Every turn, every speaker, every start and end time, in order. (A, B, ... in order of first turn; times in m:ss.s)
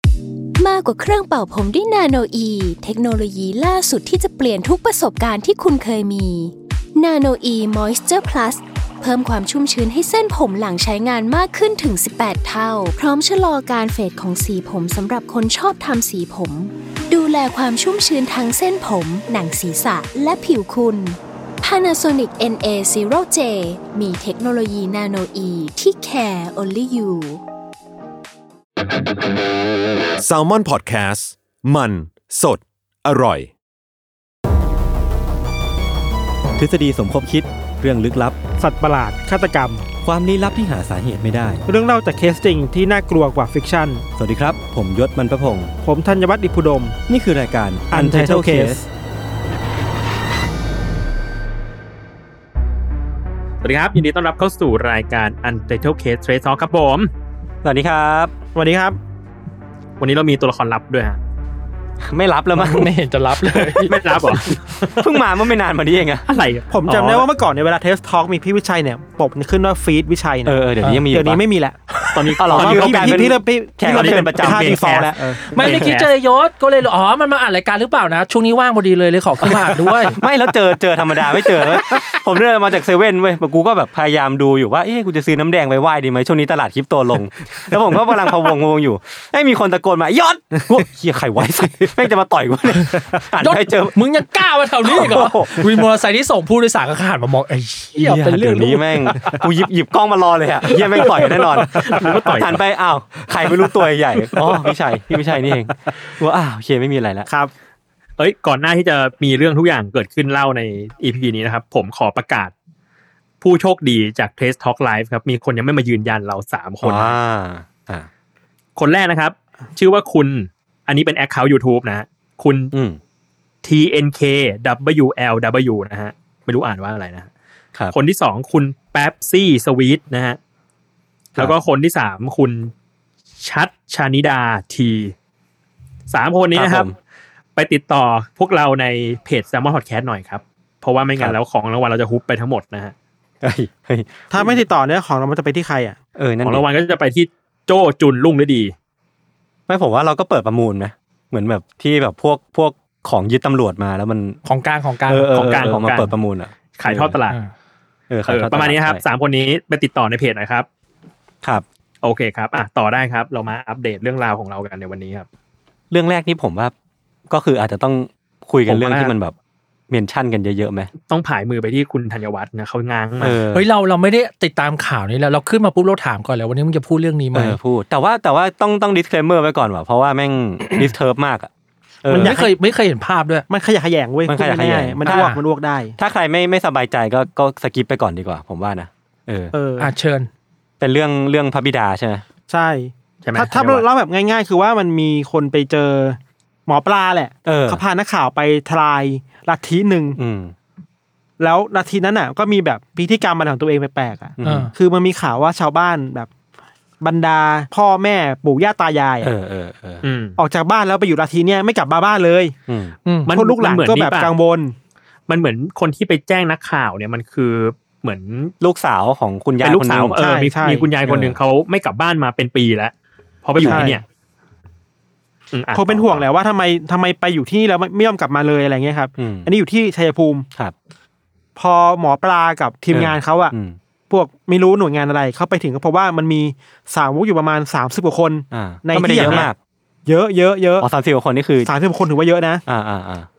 0:00.6-0:27.4 A
0:30.2-0:33.5 B
0:36.6-0:38.4 C
0:38.6-0:39.8 D
0:40.0-0:41.6 C
0:41.7-0:44.0 D
0:44.2-0:45.7 C
0:45.8-0:47.0 D
0:47.1-0:48.8 C
0:47.9-0:48.9 D
0:53.6-0:57.1 E
0:57.6-0:58.3 C
0:58.6-0:59.0 D
1:00.0-1:01.2 E
1:02.0-1:03.8 C
1:02.5-1:04.4 F
1:03.9-1:05.1 E
1:04.9-1:06.3 C
1:06.3-1:07.3 E
1:06.7-1:11.8 D
1:10.4-1:11.4 C
1:11.9-1:12.2 F
1:12.1-1:16.1 E
1:12.4-1:14.8 C
1:12.4-1:15.4 D
1:15.4-1:20.2 F
1:15.6-1:16.0 C
1:19.4-1:34.0 C
1:21.2-1:22.0 F
1:33.4-1:39.4 F
1:34.8-1:35.8 C
1:38.0-1:47.3 C
1:40.7-1:41.1 F
1:41.8-1:42.6 E
1:42.0-1:42.4 D
1:47.3-1:47.5 D
1:48.2-1:52.5 E
1:53.4-1:57.2 E
1:56.8-1:58.1 C
1:58.8-2:02.7 E
2:02.7-2:03.0 C
2:03.6-2:07.3 E
2:07.9-2:10.4 E
2:11.4-2:12.7 E
2:13.4-2:15.1 E
2:16.1-2:16.9 E
2:16.5-2:16.9 C
2:17.6-2:22.9 E
2:23.4-2:24.6 C
2:24.3-2:26.0 D
2:26.2-2:26.6 C
2:26.4-2:28.7 E
2:29.7-2:34.4 C
2:34.4-2:35.5 F
2:35.1-2:37.2 C
2:35.3-2:36.1 E
2:36.8-2:37.4 E
2:38.1-2:39.0 C
2:38.3-2:40.7 E
2:42.0-2:45.3 E
2:45.9-2:46.7 C
2:47.3-2:49.4 C
2:48.7-2:49.2 E
2:49.9-2:50.9 C
2:51.1-2:53.4 E
2:53.2-2:53.7 C
2:53.5-2:57.6 F
2:57.3-3:01.5 C
3:02.0-3:02.4 C
3:02.1-3:02.5 D
3:02.1-3:03.5 F
3:03.5-3:06.0 D
3:04.3-3:05.4 C
3:05.0-3:05.4 F
3:06.0-3:09.6 C
3:09.5-3:09.9 D
3:09.8-3:10.3 F
3:10.8-3:12.2 C
3:12.5-3:20.2 D
3:13.2-3:13.8 E
3:17.4-3:17.8 C
3:20.2-3:20.6 C
3:21.4-3:26.3 D
3:24.4-3:24.7 C
3:24.4-3:24.7 F
3:27.0-3:29.3 D
3:29.2-3:30.1 C
3:30.0-3:30.4 E
3:30.4-3:32.6 D
3:32.7-3:33.0 C
3:33.0-3:33.3 F
3:33.3-3:34.3 E
3:33.3-3:34.8 D
3:35.3-3:38.5 E
3:38.6-3:40.2 C
3:39.6-3:42.9 E
3:40.2-3:40.9 D
3:41.0-3:41.4 C
3:43.4-3:44.0 E
3:43.6-3:44.0 C
3:43.6-3:44.0 D
3:45.5-3:46.2 E
3:45.7-3:50.5 D
3:49.2-3:49.5 C
3:51.6-3:53.5 D
3:52.9-3:53.8 C
3:54.1-3:59.5 D
3:58.5-3:59.6 C
3:58.9-3:59.5 E
4:00.1-4:00.9 D
4:00.8-4:01.7 C
4:01.6-4:02.6 D
4:02.7-4:03.3 C